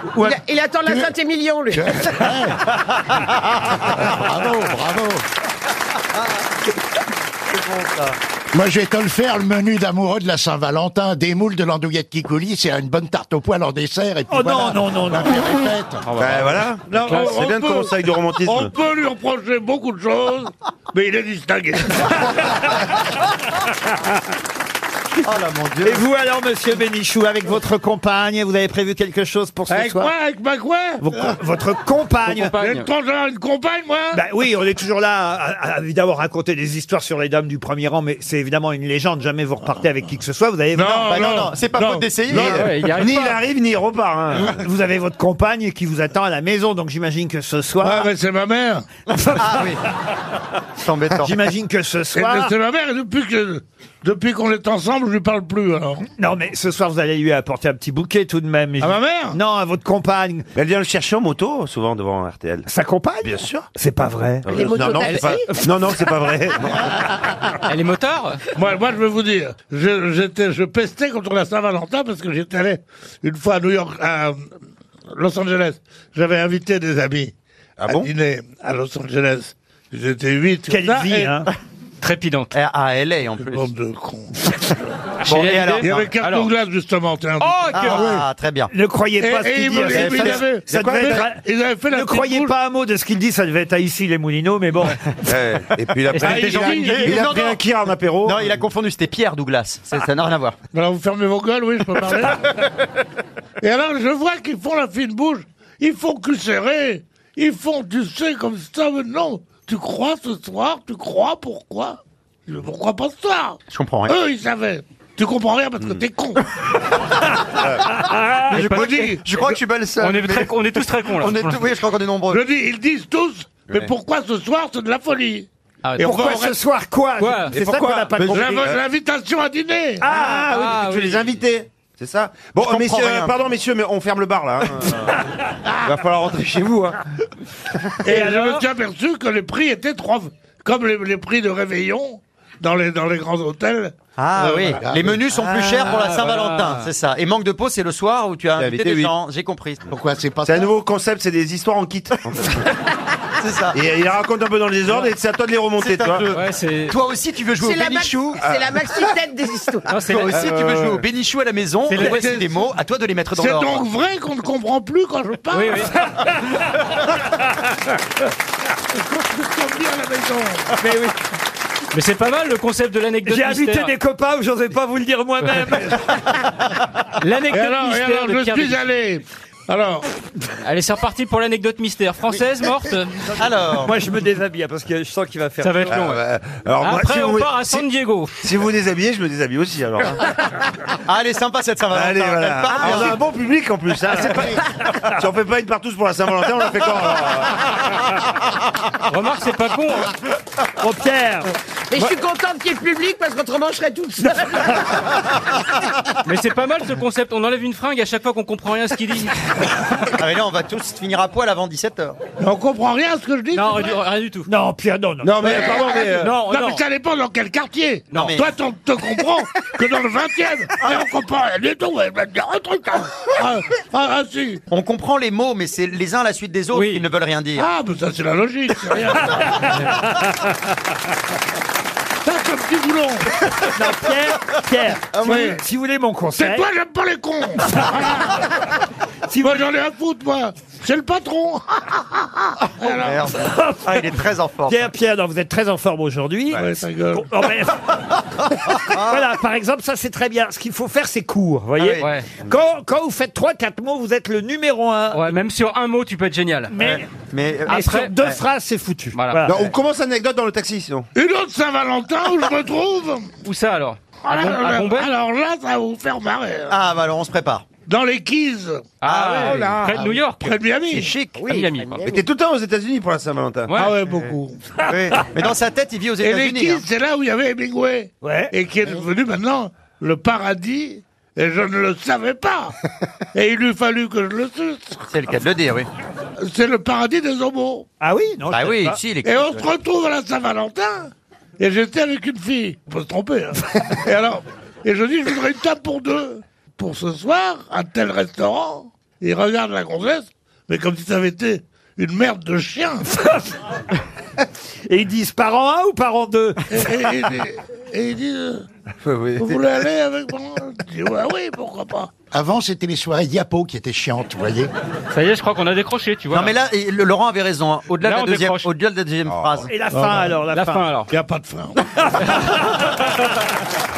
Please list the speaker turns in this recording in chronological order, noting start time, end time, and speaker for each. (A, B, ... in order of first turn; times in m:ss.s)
0:00.2-0:02.0 A
0:01.7-0:02.6 B
0:04.1-0:05.2 B
0:07.5-0:08.1 C
0:08.5-0:16.0 B
0:14.3-0:15.4 D
0:16.0-0:17.4 E
0:16.2-0:18.7 F
0:16.9-0:22.4 G
0:25.2-0:26.0 F
0:25.8-0:30.1 D
0:29.7-0:31.0 G
0:31.0-0:32.6 D
0:32.2-0:32.9 E
0:32.6-0:34.2 G
0:34.1-0:41.2 D
0:40.8-0:42.6 G
0:41.0-0:42.6 C
0:42.3-0:44.5 F
0:42.3-0:43.4 E
0:44.5-0:48.0 D
0:47.8-0:48.8 G
0:49.1-0:49.7 D
0:49.4-0:49.8 C
0:50.8-0:51.3 C
0:51.2-0:52.5 D
0:52.1-0:56.0 G
0:56.2-1:00.4 D
0:58.8-0:59.4 G
1:00.5-1:02.6 F
1:02.6-1:04.5 D
1:03.2-1:03.7 F
1:04.4-1:06.9 F
1:05.0-1:05.4 E
1:07.7-1:08.4 E
1:08.5-1:14.4 G
1:15.1-1:17.3 G
1:17.8-1:21.3 G
1:20.7-1:21.5 D
1:22.0-1:22.5 E
1:22.5-1:23.7 C
1:23.4-1:24.4 G
1:25.2-1:26.1 C
1:25.2-1:26.5 E
1:25.8-1:28.2 G
1:27.4-1:28.1 E
1:27.7-1:28.7 C
1:28.7-1:35.1 D
1:29.2-1:32.5 G
1:29.9-1:31.2 C
1:35.2-1:38.5 F
1:36.1-1:37.4 E
1:36.2-1:37.4 G
1:36.6-1:37.6 C
1:38.2-1:40.6 C
1:40.7-1:42.4 G
1:43.6-1:56.4 G
1:53.7-1:54.1 C
1:57.2-1:58.9 D
1:58.5-2:00.5 C
1:58.5-1:59.2 G
2:00.0-2:01.6 E
2:01.0-2:02.4 C
2:02.3-2:05.5 G
2:05.8-2:06.2 E
2:06.0-2:06.5 G
2:06.0-2:08.6 D
2:07.2-2:07.6 E
2:07.6-2:08.8 F
2:08.3-2:10.0 G
2:10.0-2:10.7 D
2:10.1-2:11.4 E
2:10.6-2:15.1 F
2:12.6-2:13.3 C
2:15.8-2:17.0 F
2:18.0-2:24.7 G
2:18.1-2:18.6 D
2:24.2-2:29.9 C
2:24.8-2:25.2 B
2:25.8-2:26.8 E
2:28.5-2:29.2 F
2:29.9-2:30.7 B
2:30.4-2:32.6 F
2:33.4-2:33.8 C
2:33.7-2:36.4 F
2:35.8-2:36.3 C
2:36.3-2:36.9 E
2:36.9-2:38.4 C
2:37.6-2:40.0 A
2:39.9-2:40.7 E
2:40.0-2:43.9 C
2:41.9-2:42.3 E
2:41.9-2:42.6 G
2:43.4-2:45.9 G
2:45.5-2:45.9 E
2:48.9-2:50.8 G
2:51.9-2:53.9 E
2:53.3-2:56.0 D
2:57.2-2:58.8 E
2:57.5-3:00.0 G
3:00.6-3:03.1 E
3:03.4-3:04.0 C
3:03.8-3:06.0 D
3:05.6-3:06.2 E
3:05.9-3:07.8 F
3:06.8-3:08.4 E
3:08.4-3:10.2 F
3:11.0-3:13.2 C
3:11.9-3:17.6 F
3:19.1-3:20.1 E
3:20.8-3:21.5 D
3:21.9-3:24.7 A
3:26.2-3:29.4 E
3:30.2-3:32.2 C
3:32.4-3:34.0 G
3:33.5-3:34.5 E
3:34.5-3:36.1 D
3:35.2-3:36.2 F
3:35.4-3:44.6 G
3:36.1-3:36.8 E
3:38.1-3:38.5 C
3:44.7-3:47.7 C
3:46.7-3:47.0 E
3:47.6-3:49.5 G
3:49.8-3:50.2 D
3:52.2-3:53.3 G
3:53.7-3:56.6 D
3:55.2-3:55.6 G
3:56.4-3:58.2 G
3:59.3-3:59.6 D
3:59.4-4:02.0 G
4:02.8-4:03.3 G
4:02.8-4:04.9 C
4:04.7-4:07.8 D
4:06.5-4:07.3 G
4:08.6-4:15.3 D
4:08.8-4:09.2 C
4:11.8-4:12.1 C
4:12.0-4:12.3 E
4:15.1-4:16.9 E
4:16.7-4:17.0 D
4:17.1-4:18.4 C
4:17.6-4:19.6 D
4:17.7-4:18.1 E
4:19.1-4:19.4 E
4:19.4-4:21.1 F
4:21.2-4:23.3 G
4:23.4-4:25.1 E
4:24.2-4:26.7 G
4:26.7-4:27.6 C
4:27.9-4:28.9 G
4:29.0-4:29.8 C
4:29.0-4:30.6 E
4:29.4-4:29.9 F
4:30.4-4:31.1 G
4:30.9-4:31.6 C
4:31.4-4:32.2 E
4:32.0-4:33.7 F
4:33.7-4:34.0 E
4:33.7-4:35.3 G
4:34.8-4:36.8 C
4:36.2-4:42.7 G
4:38.2-4:38.5 D
4:43.3-4:45.0 G
4:45.1-4:45.9 C
4:46.4-4:47.8 G
4:48.0-4:49.0 D
4:48.5-4:49.7 C
4:49.2-5:03.0 G
5:04.9-5:06.6 D
5:06.7-5:08.6 G
5:09.0-5:09.5 F
5:09.4-5:12.1 G
5:12.3-5:14.7 B
5:15.1-5:16.6 E
5:16.3-5:19.8 C
5:17.9-5:18.7 E
5:19.7-5:20.9 D
5:19.9-5:20.4 G
5:20.5-5:21.1 E
5:21.1-5:21.8 G
5:22.0-5:23.0 D